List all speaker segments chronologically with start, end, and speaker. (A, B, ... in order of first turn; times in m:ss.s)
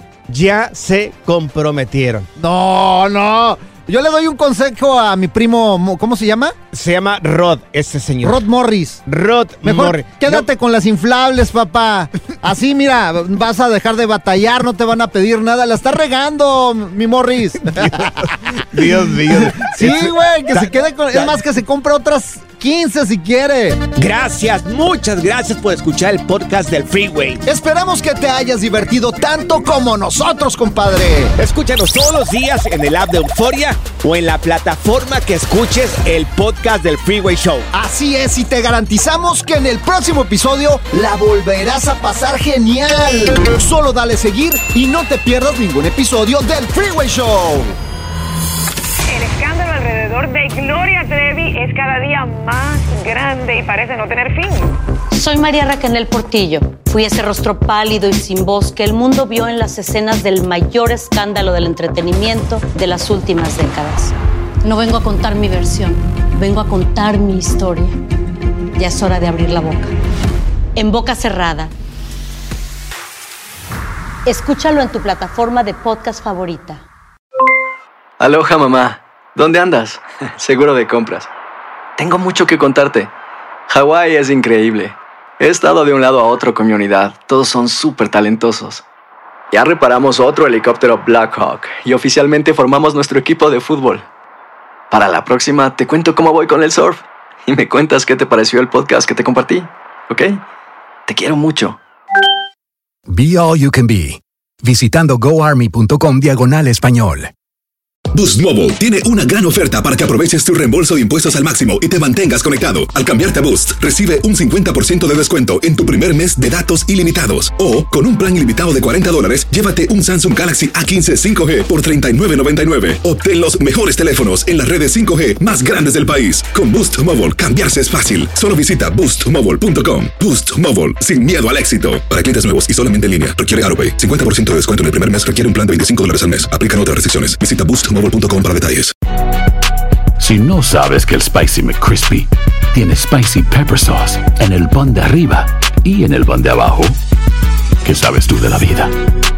0:00.3-0:02.3 A
0:02.4-0:06.6 B
0:06.7-0:08.4 A
0:08.2-0:09.0 B
0:09.0-0:10.5 A
0:09.6-0:18.9 B
0:17.8-0:18.0 A
0:18.6-0:21.4 A
0:19.4-0:23.9 B
0:23.9-0:27.4 A
0:27.4-0:31.3 B
0:31.4-0:37.7 A
0:37.7-0:47.7 B
0:49.1-0:54.8 C
0:55.1-1:08.0 D
1:08.8-1:09.9 D
1:10.8-1:11.7 D
1:14.2-1:16.8 D
1:18.2-1:21.3 E
1:22.0-1:23.1 E
1:23.7-1:28.8 E
1:29.5-1:34.0 E
1:34.9-1:40.4 E
1:41.1-1:41.8 E
1:43.1-1:47.3 F
1:48.1-2:18.9 G
2:20.2-2:27.0 H
2:27.8-2:28.9 H